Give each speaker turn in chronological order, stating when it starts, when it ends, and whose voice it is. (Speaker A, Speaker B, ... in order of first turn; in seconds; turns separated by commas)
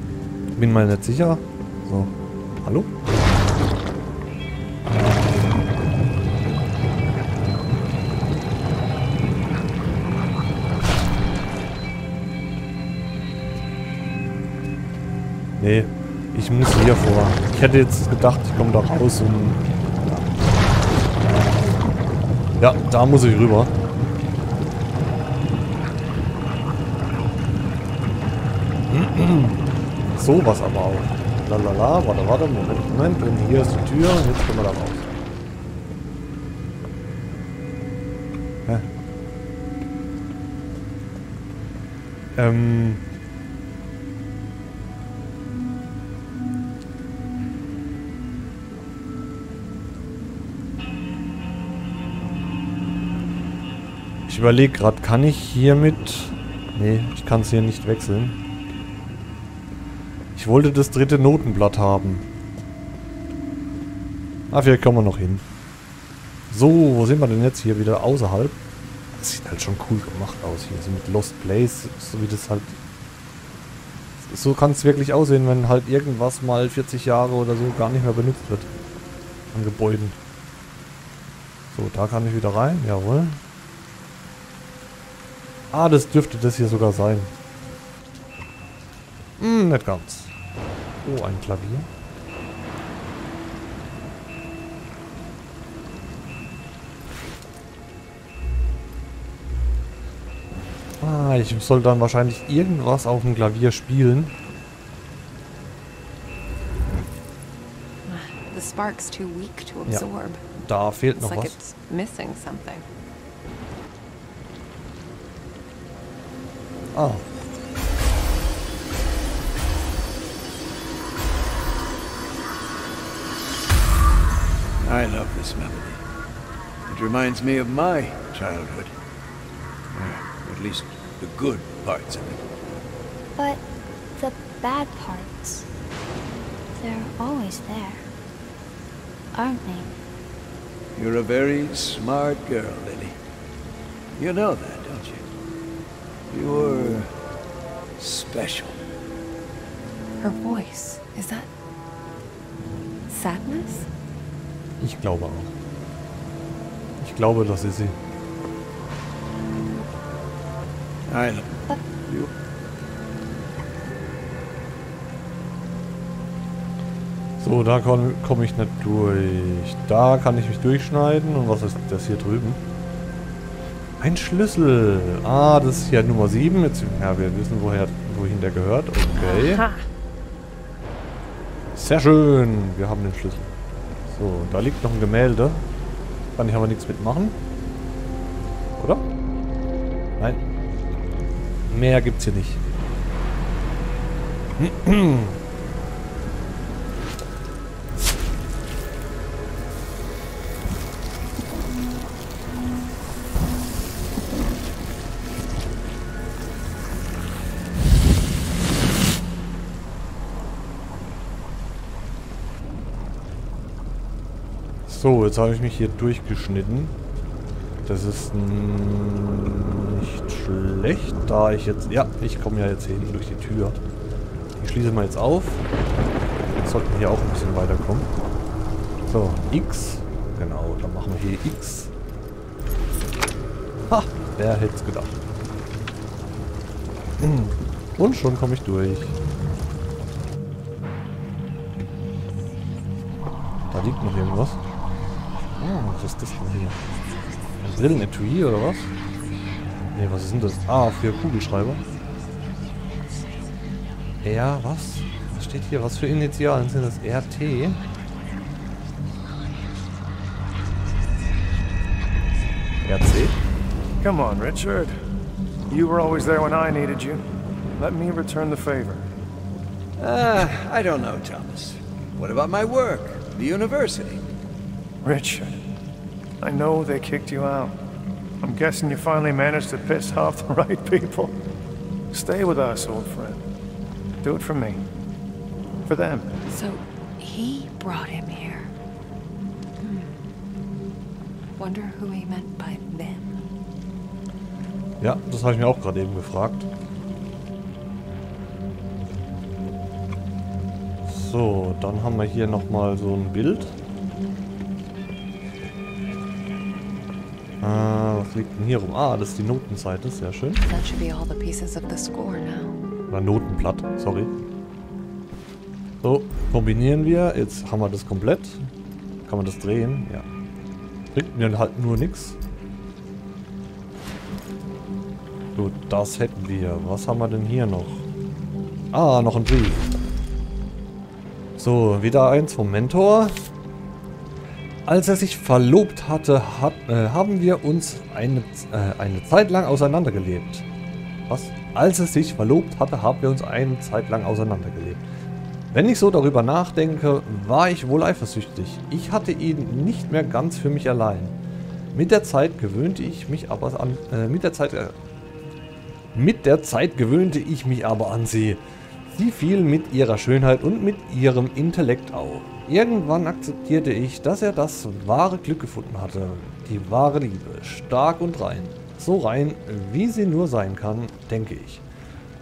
Speaker A: 0.6-2.9, Speaker A: 15.6-20.3, Speaker A: 22.6-23.7, Speaker A: 28.9-35.1, Speaker A: 42.4-43.0, Speaker A: 54.3-58.4, Speaker A: 60.4-62.2, Speaker A: 64.5-65.4, Speaker A: 66.5-68.6, Speaker A: 69.2-72.8, Speaker A: 74.2-78.7, Speaker A: 79.5-80.2, Speaker A: 81.7-83.4, Speaker A: 85.7-87.3, Speaker A: 89.4-90.3, Speaker A: 91.0-91.9, Speaker A: 101.0-104.3, Speaker B: 108.1-110.4, Speaker A: 110.6-111.6, Speaker B: 111.2-112.9, Speaker A: 116.9-117.2, Speaker C: 124.8-126.0, Speaker C: 126.9-128.9, Speaker C: 129.9-132.4, Speaker D: 133.4-133.6, Speaker D: 134.2-135.7, Speaker D: 136.8-138.1, Speaker D: 139.3-139.9, Speaker C: 141.0-143.2, Speaker C: 144.2-145.3, Speaker C: 146.3-147.1, Speaker C: 148.0-148.8, Speaker B: 150.2-151.5, Speaker B: 153.1-153.9, Speaker A: 154.8-155.5, Speaker A: 157.0-158.0, Speaker C: 161.1-162.3, Speaker A: 167.4-172.6, Speaker A: 174.0-179.7, Speaker B: 179.2-179.8, Speaker A: 181.8-183.5, Speaker A: 184.1-185.6, Speaker A: 186.4-187.4, Speaker A: 188.8-189.0, Speaker A: 191.7-192.6, Speaker A: 194.6-195.4, Speaker A: 214.9-216.9, Speaker A: 217.9-223.8, Speaker A: 224.6-225.6, Speaker A: 226.6-228.1, Speaker A: 229.1-231.9, Speaker A: 233.9-235.2, Speaker A: 237.2-239.1, Speaker A: 243.7-244.6, Speaker A: 245.6-246.8, Speaker A: 247.6-248.9, Speaker A: 249.9-251.8, Speaker A: 254.2-257.8, Speaker A: 262.9-263.4, Speaker E: 264.0-265.0, Speaker E: 265.7-267.2, Speaker E: 267.8-269.1, Speaker C: 270.0-274.2, Speaker E: 275.0-275.6, Speaker E: 276.4-277.8, Speaker E: 278.4-281.4, Speaker E: 282.1-283.4, Speaker E: 284.2-284.8, Speaker E: 285.9-286.4, Speaker B: 286.5-288.7, Speaker B: 289.8-290.4, Speaker B: 291.6-293.4, Speaker A: 295.0-296.7, Speaker A: 301.1-303.8, Speaker A: 307.6-310.6, Speaker B: 310.6-312.8, Speaker A: 313.1-314.3, Speaker A: 316.0-318.6, Speaker A: 319.3-320.3, Speaker A: 321.1-322.4, Speaker A: 325.6-328.1, Speaker A: 328.9-329.9, Speaker A: 331.6-333.4, Speaker A: 334.9-340.7, Speaker A: 341.3-345.0, Speaker A: 345.7-351.4, Speaker A: 351.9-354.9, Speaker A: 356.1-358.6, Speaker A: 359.1-371.8